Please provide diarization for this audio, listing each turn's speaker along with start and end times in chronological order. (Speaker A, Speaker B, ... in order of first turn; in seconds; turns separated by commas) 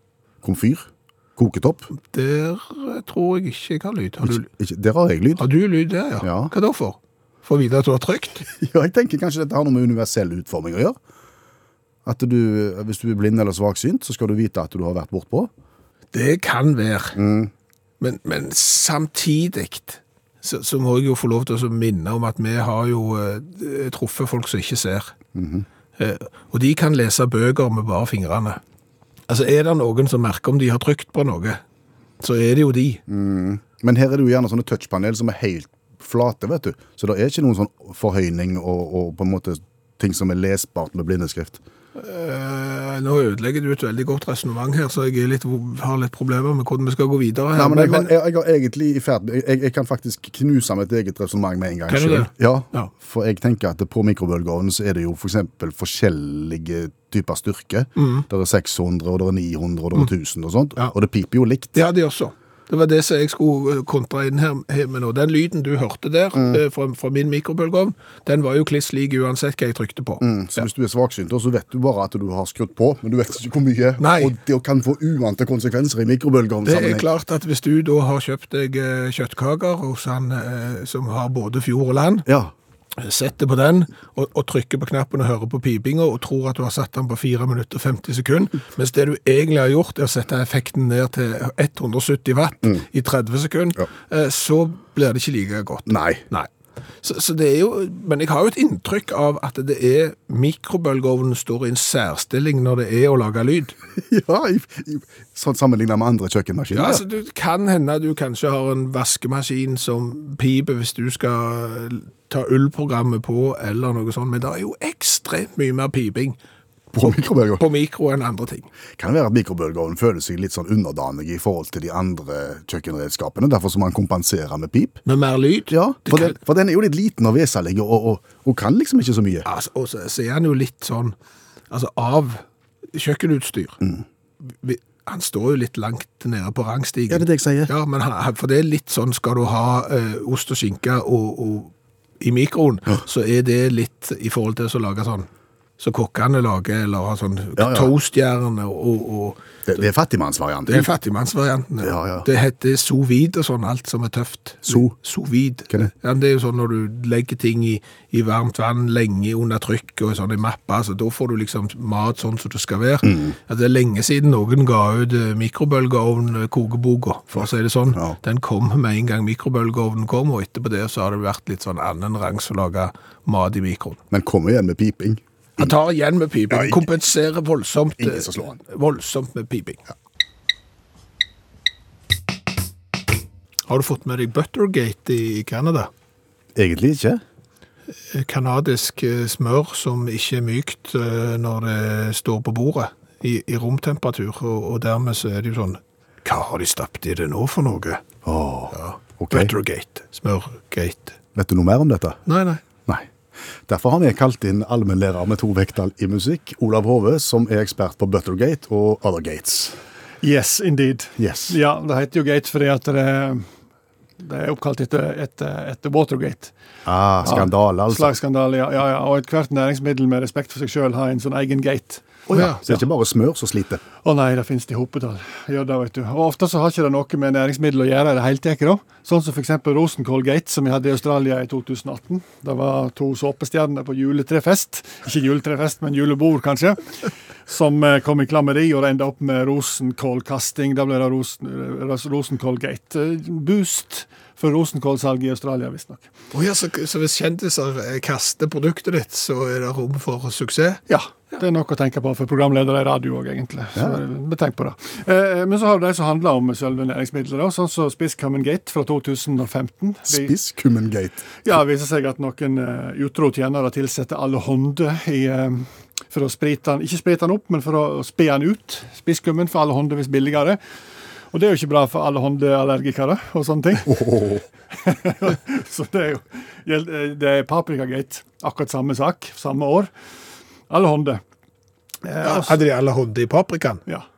Speaker A: 0.4-1.9, Speaker B: 2.1-4.5, Speaker A: 4.2-5.5, Speaker B: 5.4-8.5, Speaker A: 6.2-6.5, Speaker A: 8.5-11.0, Speaker A: 12.0-15.5, Speaker B: 16.1-17.2, Speaker A: 17.1-17.5, Speaker B: 18.0-25.1, Speaker A: 25.3-25.6, Speaker B: 26.0-28.6, Speaker B: 29.3-31.6, Speaker B: 32.2-33.0, Speaker A: 33.1-41.6, Speaker B: 42.0-48.1, Speaker A: 47.5-61.7, Speaker B: 51.9-52.9, Speaker B: 58.0-58.2, Speaker B: 61.7-70.2, Speaker A: 66.3-66.6, Speaker A: 70.2-77.0, Speaker B: 74.0-74.3, Speaker B: 76.6-82.2, Speaker A: 82.2-82.5, Speaker B: 83.0-96.5, Speaker A: 95.9-96.2, Speaker B: 97.0-103.7, Speaker A: 104.0-107.0, Speaker B: 106.7-116.4, Speaker A: 116.9-117.6, Speaker B: 117.0-118.7, Speaker A: 119.0-125.0, Speaker B: 125.0-126.3, Speaker A: 125.7-129.5, Speaker B: 129.4-131.1, Speaker B: 131.7-133.8, Speaker B: 134.5-149.4, Speaker A: 137.1-137.7, Speaker A: 147.6-147.9, Speaker A: 149.7-150.9, Speaker B: 150.7-174.0, Speaker A: 151.8-152.2, Speaker A: 154.7-154.9, Speaker A: 163.0-163.3, Speaker A: 174.1-175.7, Speaker B: 175.6-179.8, Speaker A: 176.5-176.8, Speaker A: 178.0-178.6, Speaker B: 183.7-185.9, Speaker A: 186.5-187.2, Speaker B: 188.1-198.0, Speaker A: 198.2-199.5, Speaker B: 198.7-201.2, Speaker A: 201.3-202.2, Speaker B: 202.2-202.6, Speaker A: 203.7-209.8, Speaker C: 210.2-213.4, Speaker A: 211.2-211.6, Speaker C: 214.2-216.5, Speaker A: 216.8-218.2, Speaker C: 217.2-222.1, Speaker A: 222.3-223.8, Speaker B: 222.3-222.6, Speaker C: 224.0-236.9, Speaker C: 237.5-246.1, Speaker B: 246.3-250.8, Speaker C: 250.9-260.3, Speaker A: 260.1-261.3, Speaker C: 261.4-270.6, Speaker C: 271.3-274.1, Speaker A: 273.9-274.4, Speaker C: 274.7-279.9, Speaker C: 280.7-281.2, Speaker C: 282.0-282.6, Speaker B: 282.2-283.8